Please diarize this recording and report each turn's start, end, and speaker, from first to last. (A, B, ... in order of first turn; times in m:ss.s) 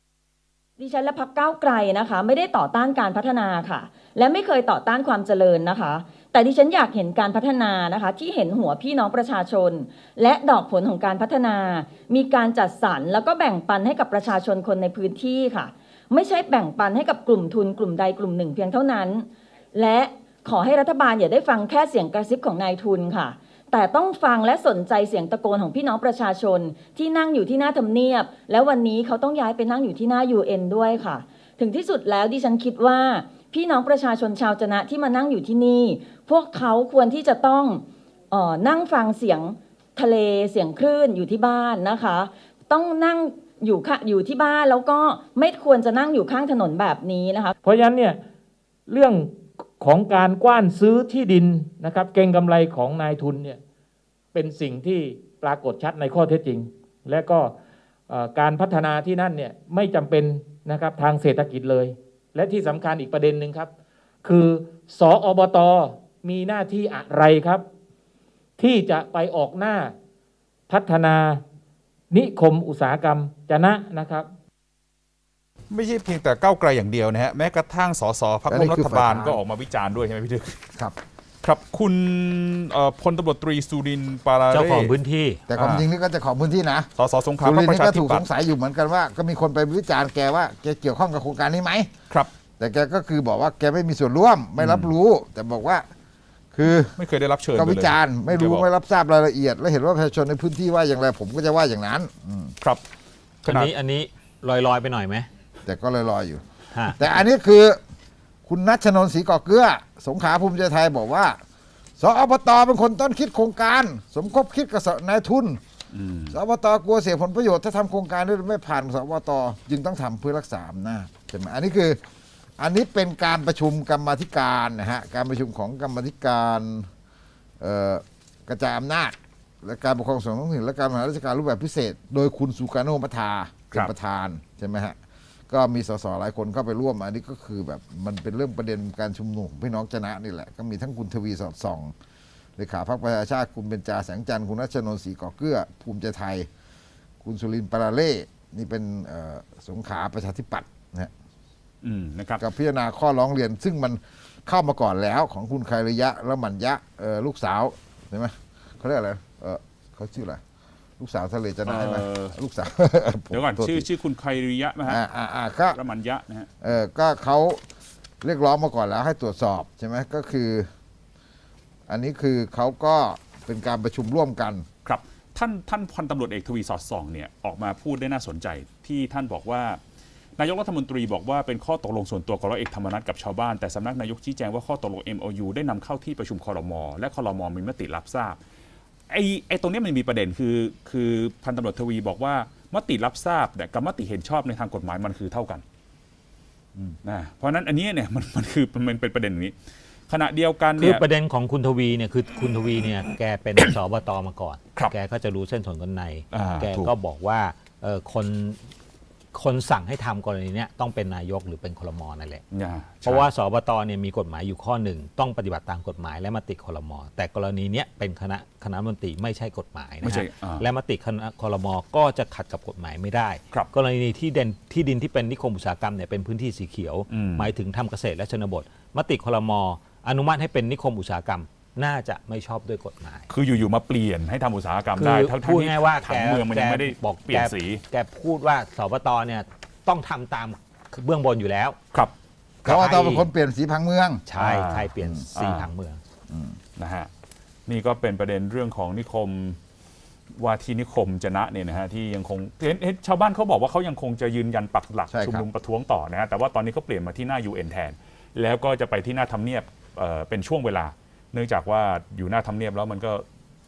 0:00.8-0:47.5 A
0:47.6-0:48.2 B
0:48.9-0:53.6 B
0:54.3-0:57.5 B
0:58.1-1:03.7 B
1:04.2-1:07.6 B
1:08.6-1:09.9 B
1:10.7-1:11.4 B
1:12.1-1:14.3 B
1:15.7-1:20.6 C
1:18.5-1:19.4 D
1:21.4-1:24.9 C
1:24.5-1:25.4 E
1:25.5-1:26.9 D
1:25.5-1:25.8 C
1:27.0-1:28.2 C
1:27.4-1:31.9 D
1:32.6-1:35.8 D
1:34.6-1:34.9 C
1:36.5-1:36.9 D
1:37.0-1:38.6 C
1:37.5-1:42.5 D
1:43.4-1:43.7 C
1:43.4-1:45.3 E
1:45.6-1:46.4 D
1:47.0-1:47.8 D
1:48.4-1:51.4 D
1:52.0-1:55.6 D
1:55.9-1:56.4 C
1:56.3-2:02.0 D
2:02.6-2:06.9 D
2:07.6-2:15.0 D
2:15.5-2:21.9 D
2:22.6-2:26.5 D
2:27.2-2:31.1 D
2:31.8-2:32.4 C
2:32.4-2:40.4 D
2:41.0-2:43.9 D
2:41.6-2:42.3 C
2:43.3-2:45.0 C
2:44.9-2:45.8 D
2:45.7-2:46.5 C
2:46.6-2:47.6 D
2:48.2-2:50.7 D
2:51.9-2:54.6 D
2:54.8-2:59.8 C
3:00.4-3:08.4 C
3:09.1-3:15.6 C
3:16.9-3:19.5 C
3:20.1-3:21.0 C
3:20.8-3:28.6 E
3:26.3-3:26.9 C
3:29.3-3:32.4 E
3:32.5-3:33.3 C
3:33.0-3:53.3 E
3:40.0-3:40.6 C
3:47.1-3:47.5 C
3:53.3-3:57.8 C
3:55.0-4:01.8 E
4:02.6-4:03.2 E
4:02.6-4:04.2 D
4:04.3-4:06.0 E
4:04.4-4:05.7 C
4:06.3-4:06.6 D
4:06.8-4:07.1 C
4:07.7-4:09.6 C
4:10.3-4:23.2 C
4:15.1-4:15.5 D